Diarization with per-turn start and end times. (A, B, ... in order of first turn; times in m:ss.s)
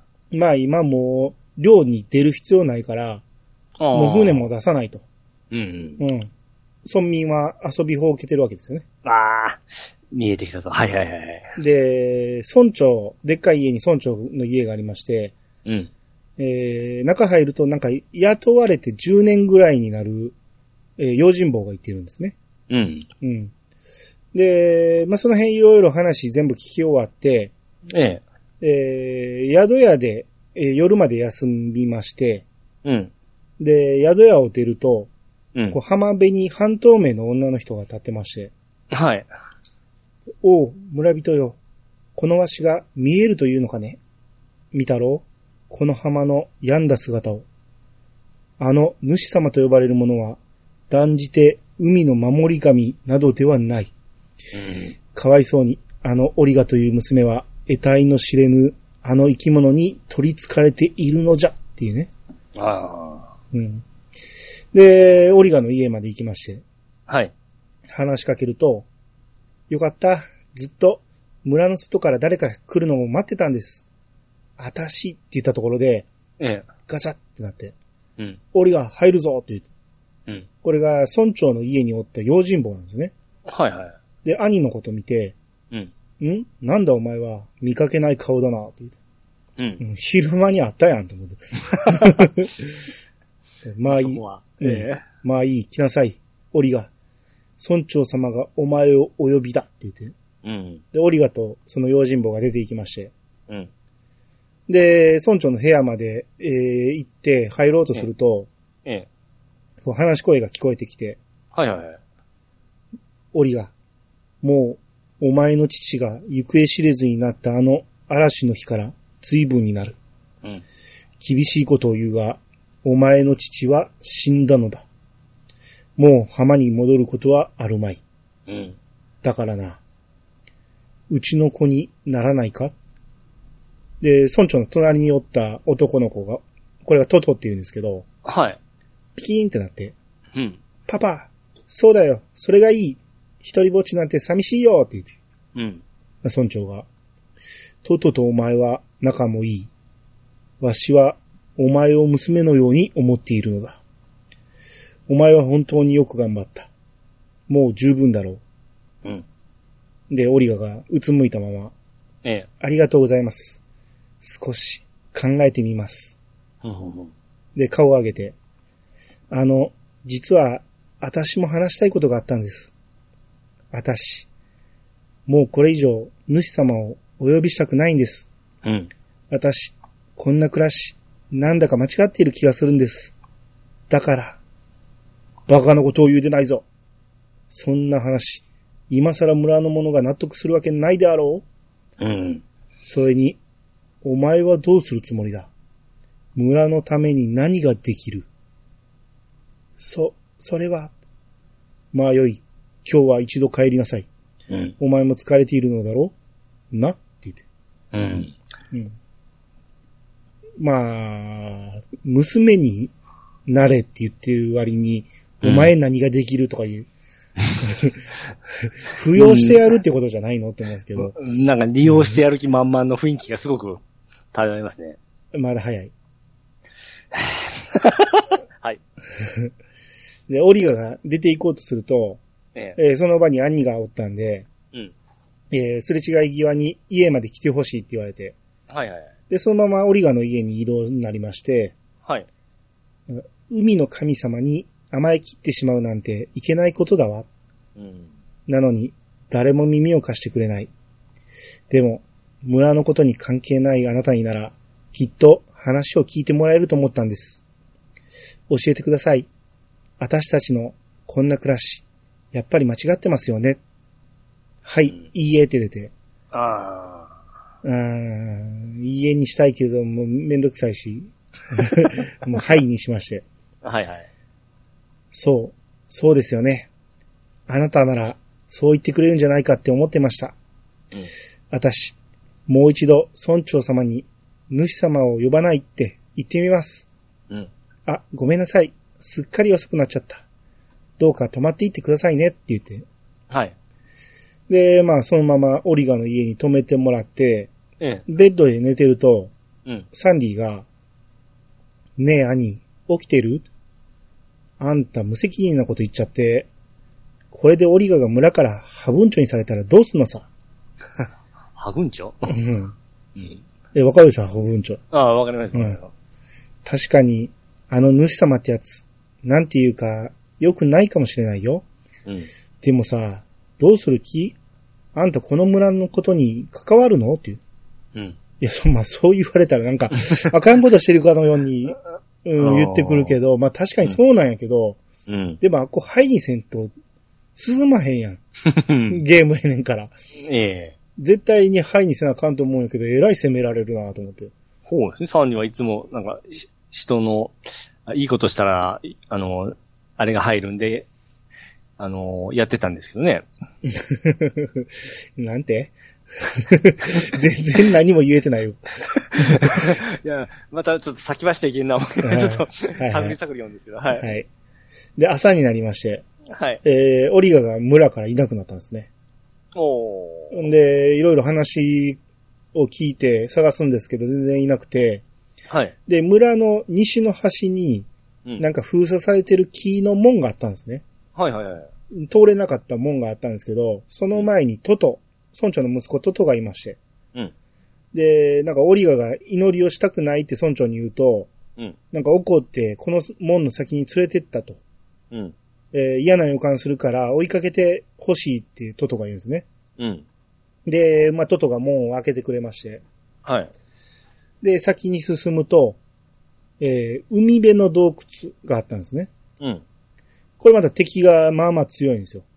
0:00.3-0:03.2 A
0:03.8-0:04.5 B
0:03.9-0:05.0 A
0:05.5-0:06.0 B
0:06.0-0:06.3 A
0:06.8-0:08.8 A
0:09.0-0:11.5 B
0:11.6-0:15.4 A
0:15.6-0:15.9 B
0:16.4-0:20.4 A
0:21.0-0:22.4 A
0:22.7-0:23.1 B
0:23.2-0:23.5 A
0:24.3-0:27.5 A
0:27.9-0:28.2 B
0:28.6-0:32.5 A
0:32.8-0:33.1 B
0:33.6-0:35.1 A
0:35.7-0:38.5 A
0:38.9-0:39.3 B
0:40.4-0:41.6 A
0:42.2-0:44.0 A
0:44.7-0:47.5 A
0:48.6-0:50.4 A
0:50.9-0:53.9 A
0:54.5-0:54.9 B
0:55.1-1:02.1 A
1:02.6-1:03.3 B
1:03.5-1:03.8 A
1:04.7-1:06.6 A
1:07.1-1:07.3 B
1:07.9-1:08.9 A
1:09.7-1:13.9 A
1:14.6-1:16.1 A
1:16.4-1:16.7 B
1:16.9-1:17.8 A
1:18.5-1:19.7 A
1:20.6-1:23.1 A
1:23.5-1:24.0 B
1:24.2-1:25.4 A
1:26.2-1:29.0 A
1:29.6-1:29.8 B
1:29.8-1:32.7 A
1:31.7-1:32.1 B
1:33.6-1:36.9 A
1:33.8-1:35.0 B
1:37.6-1:40.1 A
1:40.4-1:40.8 B
1:40.9-1:43.1 A
1:44.7-1:48.5 A
1:49.8-1:51.2 A
1:51.5-1:52.0 B
1:53.3-1:53.7 A
1:54.4-2:00.0 A
2:01.2-2:04.9 A
2:06.0-2:08.0 A
2:08.5-2:08.8 B
2:09.2-2:09.8 A
2:11.1-2:12.7 A
2:14.0-2:18.0 A
2:18.2-2:18.6 B
2:19.2-2:20.0 A
2:20.4-2:20.6 B
2:20.9-2:25.1 A
2:25.6-2:25.8 B
2:26.2-2:26.9 A
2:27.8-2:29.7 A
2:30.6-2:33.8 A
2:35.1-2:36.7 A
2:37.5-2:38.4 A
2:40.1-2:41.7 A
2:42.6-2:43.6 A
2:44.2-2:46.2 A
2:46.6-2:47.1 B
2:47.6-2:48.4 A
2:49.3-2:52.7 A
2:53.7-2:54.3 A
2:55.3-2:58.3 A
2:58.6-2:58.9 B
2:59.3-3:03.1 A
3:03.9-3:04.4 A
3:05.5-3:06.6 A
3:07.5-3:11.4 A
3:12.0-3:12.4 B
3:12.8-3:13.4 A
3:14.0-3:15.5 A
3:16.4-3:18.3 A
3:19.8-3:20.9 A
3:21.9-3:24.1 A
3:24.5-3:24.8 B
3:24.8-3:26.1 A
3:26.7-3:27.4 A
3:27.9-3:28.4 B
3:30.6-3:32.9 A
3:33.5-3:36.9 A
3:35.4-3:35.7 B
3:37.6-3:38.0 A
3:38.6-3:41.2 A
3:39.2-3:39.6 B
3:41.0-3:43.8 B
3:44.3-3:45.0 B
3:45.3-3:45.9 A
3:47.1-3:48.8 B
3:49.2-3:49.5 A
3:50.3-3:52.2 A
3:52.8-3:54.5 A
3:55.5-3:58.4 A
3:58.7-3:59.1 B
3:59.3-4:01.8 A
4:03.1-4:07.3 A
4:07.8-4:08.1 B
4:08.5-4:10.7 A
4:11.7-4:17.4 A
4:18.5-4:19.3 A
4:20.0-4:23.6 A
4:24.6-4:25.9 A
4:26.3-4:27.1 B
4:27.6-4:33.2 A
4:33.6-4:34.1 B
4:35.1-4:36.7 A
4:37.5-4:40.4 A
4:41.5-4:42.0 A
4:42.5-4:46.9 A
4:47.9-4:50.2 A
4:51.0-4:52.9 A
4:53.3-4:53.6 B
4:54.5-4:57.5 A
4:57.8-4:58.0 B
4:58.1-4:59.3 A
4:59.9-5:00.7 A
5:02.0-5:03.5 A
5:04.6-5:06.5 A
5:07.3-5:10.3 A
5:11.6-5:12.4 B
5:12.3-5:12.8 A
5:13.2-5:13.4 B
5:13.7-5:14.8 A
5:14.9-5:15.9 B
5:16.6-5:21.6 A
5:22.6-5:24.4 A
5:24.9-5:27.4 A
5:28.4-5:34.8 A
5:32.4-5:33.2 B
5:35.1-5:35.4 B
5:35.4-5:36.7 A
5:37.4-5:38.2 A
5:38.5-5:39.0 B
5:38.9-5:39.9 A
5:40.2-5:40.8 B
5:41.0-5:44.3 A
5:44.7-5:47.4 B
5:47.9-5:50.9 B
5:51.8-5:53.2 B
5:53.6-5:58.6 A
5:59.0-6:04.2 B
5:59.2-5:59.7 A
6:02.0-6:03.2 A
6:04.0-6:04.3 A
6:05.0-6:06.0 A
6:06.3-6:06.6 B
6:06.6-6:08.9 A
6:09.6-6:10.4 B
6:10.3-6:12.0 A
6:12.5-6:15.0 A
6:15.5-6:15.8 B
6:15.9-6:17.9 A
6:18.4-6:20.8 A
6:21.2-6:21.7 B
6:21.9-6:26.8 A
6:27.9-6:31.3 A
6:31.9-6:34.6 A
6:35.7-6:39.5 A
6:39.8-6:40.0 B
6:40.7-6:42.8 A
6:43.2-6:43.5 B
6:44.4-6:45.8 A
6:46.6-6:49.1 A
6:50.4-6:52.2 A